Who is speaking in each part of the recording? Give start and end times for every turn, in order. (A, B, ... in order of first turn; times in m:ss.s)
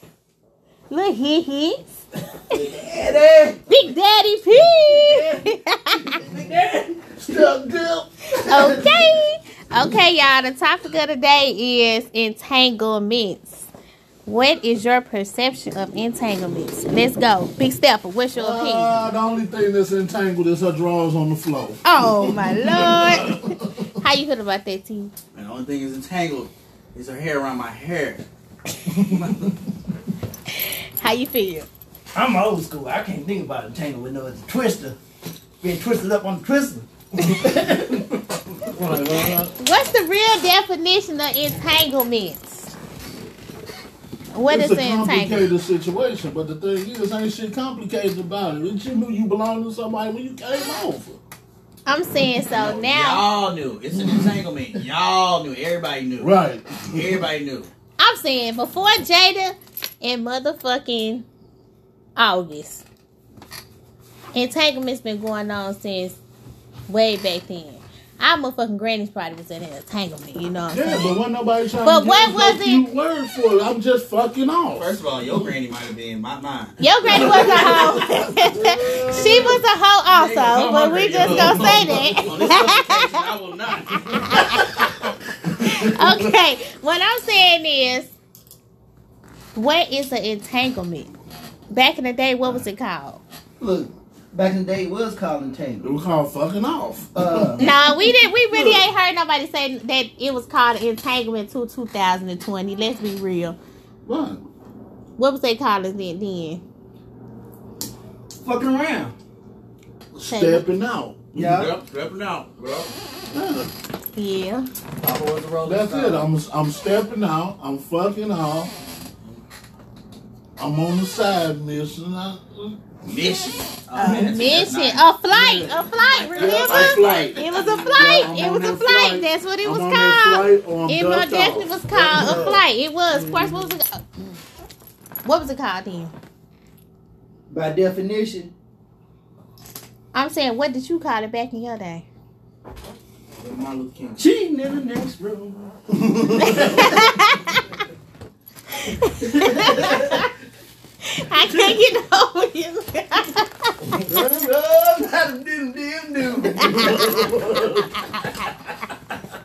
0:00.9-0:01.8 A
0:02.5-0:03.6 B
0:03.7-0:06.2 A
0:04.6-0:05.4 B
0:06.1-0:08.9 B
0:07.2-0:08.0 C
0:08.4-0:13.7 A
0:14.2-0:19.0 A
0:18.3-0:23.9 C
0:21.8-0:25.1 A
0:25.3-0:28.2 D
0:28.9-0:29.4 C
0:29.0-0:29.5 B
0:30.5-0:31.7 A
0:32.1-0:35.0 B
0:35.6-0:38.1 B
0:38.6-0:39.5 C
0:39.6-0:42.7 A
0:44.3-0:45.5 A
0:44.5-0:51.2 C
0:51.8-0:53.2 A
0:52.5-0:56.3 D
0:56.2-0:57.3 C
0:56.9-0:57.7 D
0:58.0-1:01.3 A
1:02.2-1:02.8 A
1:04.3-1:06.2 A
1:06.9-1:11.2 A
1:10.7-1:15.0 C
1:11.8-1:12.9 A
1:14.8-1:17.8 D
1:16.8-1:23.2 A
1:17.1-1:19.5 C
1:17.2-1:17.9 B
1:18.6-1:19.5 B
1:19.0-1:19.6 D
1:20.1-1:24.7 D
1:21.2-1:22.4 C
1:23.9-1:25.0 A
1:25.5-1:26.3 C
1:25.6-1:28.2 A
1:29.5-1:31.1 A
1:31.7-1:33.2 A
1:33.6-1:35.9 B
1:35.8-1:37.7 C
1:37.2-1:38.8 B
1:37.6-1:43.6 A
1:44.1-1:44.4 C
1:45.2-1:46.6 A
1:48.4-1:49.2 B
1:50.2-1:51.3 C
1:50.3-1:50.6 A
1:51.3-1:51.7 B
1:51.3-1:52.9 D
1:53.3-1:53.7 C
1:54.2-1:54.7 A
1:55.0-1:56.3 D
1:55.6-1:58.8 C
2:00.6-2:02.8 C
2:03.0-2:05.0 D
2:03.9-2:14.4 A
2:04.0-2:04.4 B
2:05.3-2:05.8 C
2:05.9-2:08.0 D
2:06.3-2:12.5 C
2:06.8-2:07.3 B
2:11.9-2:13.7 B
2:15.2-2:16.1 A
2:17.5-2:18.5 B
2:20.1-2:22.1 A
2:23.4-2:24.2 D
2:24.2-2:25.7 B
2:25.9-2:27.0 C
2:26.4-2:27.1 B
2:26.4-2:27.6 A
2:28.8-2:30.3 A
2:29.2-2:30.3 B
2:31.0-2:33.8 A
2:33.9-2:37.4 B
2:36.6-2:37.1 A
2:36.7-2:37.9 C